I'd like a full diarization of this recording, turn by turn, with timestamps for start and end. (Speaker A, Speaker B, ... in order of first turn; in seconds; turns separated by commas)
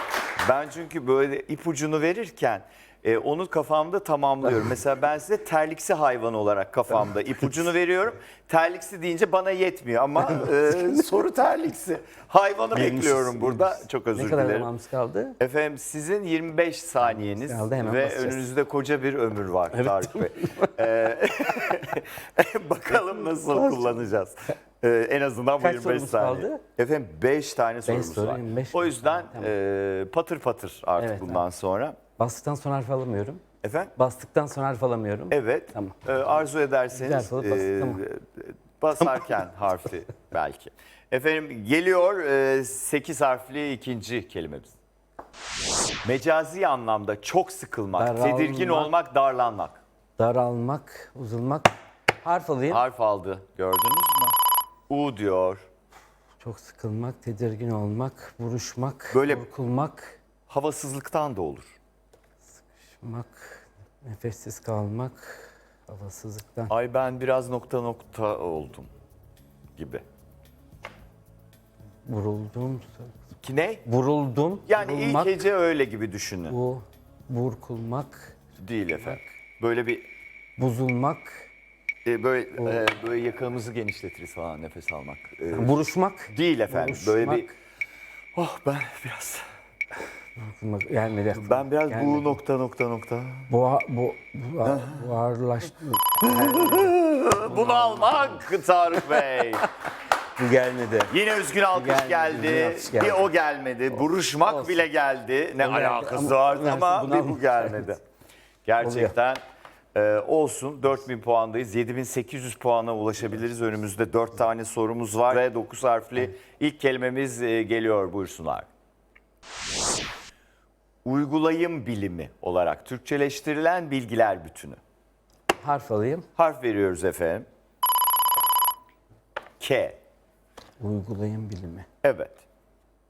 Speaker A: 0.4-14.7, Speaker B: 10.2-10.9, Speaker B: 12.7-15.4, Speaker A: 15.4-32.0, Speaker B: 17.0-18.5, Speaker B: 19.7-20.8, Speaker B: 25.6-26.6, Speaker B: 27.9-29.5, Speaker B: 31.0-31.4, Speaker B: 32.2-33.4, Speaker A: 33.6-33.9, Speaker B: 34.0-36.0, Speaker A: 35.3-44.8, Speaker B: 36.9-38.0, Speaker A: 46.0-49.8, Speaker B: 48.0-48.9, Speaker B: 50.2-51.7, Speaker B: 52.2-52.8, Speaker A: 52.7-54.4, Speaker A: 54.9-55.7, Speaker B: 56.4-60.2, Speaker A: 59.1-59.5, Speaker A: 60.5-61.8, Speaker B: 62.6-66.7, Speaker A: 66.7-68.9, Speaker A: 69.8-70.0, Speaker B: 72.1-73.1, Speaker A: 73.4-73.8, Speaker B: 73.8-75.4, Speaker A: 74.7-76.6, Speaker B: 76.5-78.4, Speaker A: 78.6-80.1, Speaker B: 80.6-81.5, Speaker A: 82.0-87.5, Speaker B: 85.5-87.5, Speaker A: 88.3-89.4, Speaker B: 90.4-92.4, Speaker A: 91.3-93.5, Speaker B: 93.5-99.4, Speaker A: 94.6-95.2, Speaker A: 96.2-99.6, Speaker B: 100.4-101.1, Speaker A: 101.1-108.0, Speaker B: 101.7-103.3, Speaker B: 104.5-104.9, Speaker B: 105.6-108.0, Speaker A: 108.7-109.4, Speaker B: 108.8-109.1, Speaker A: 109.9-118.7, Speaker A: 121.0-124.8, Speaker B: 125.6-126.3, Speaker A: 126.4-127.5, Speaker A: 129.6-130.0, Speaker B: 130.8-131.9, Speaker A: 132.0-132.4